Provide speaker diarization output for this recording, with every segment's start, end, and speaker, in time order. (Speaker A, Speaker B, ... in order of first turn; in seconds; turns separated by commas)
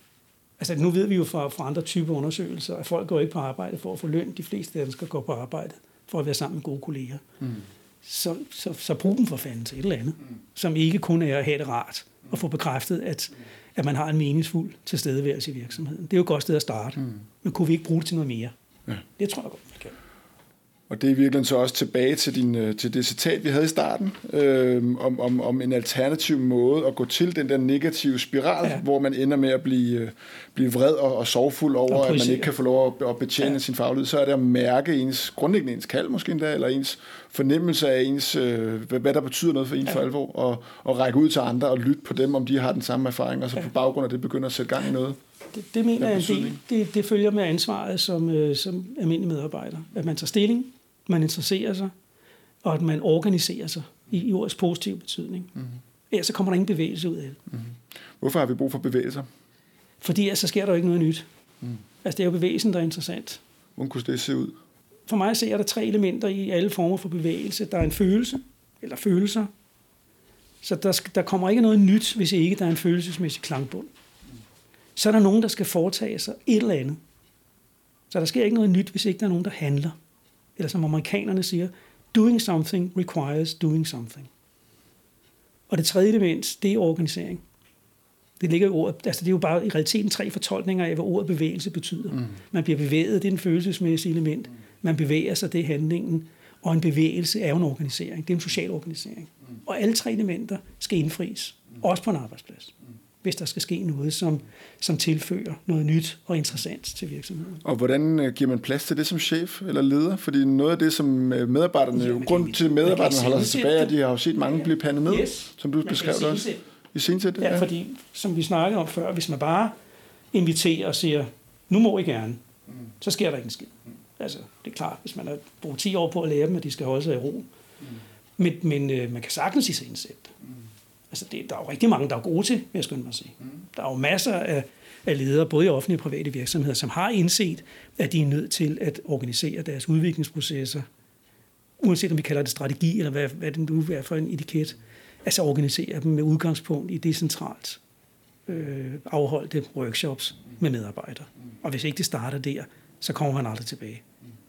Speaker A: 0.6-7.2, Speaker A: 8.0-18.5, Speaker A: 19.2-20.0, Speaker B: 20.9-45.2, Speaker A: 31.9-32.5, Speaker A: 45.5-51.9, Speaker B: 46.0-46.6, Speaker A: 52.6-55.5, Speaker A: 56.1-57.4, Speaker B: 57.5-59.3, Speaker A: 60.0-61.2, Speaker A: 62.0-63.4, Speaker B: 63.8-64.5, Speaker A: 65.1-69.5, Speaker A: 70.6-73.9, Speaker A: 75.0-77.0, Speaker A: 78.1-79.9, Speaker A: 80.6-84.3, Speaker A: 85.7-87.4, Speaker A: 88.4-107.6, Speaker B: 107.6-117.7, Speaker A: 111.9-113.9, Speaker A: 115.0-116.6, Speaker A: 117.4-119.7, Speaker A: 120.3-122.4, Speaker A: 123.0-127.5, Speaker A: 128.4-130.3, Speaker A: 131.1-140.8, Speaker A: 141.8-147.8, Speaker A: 148.5-154.0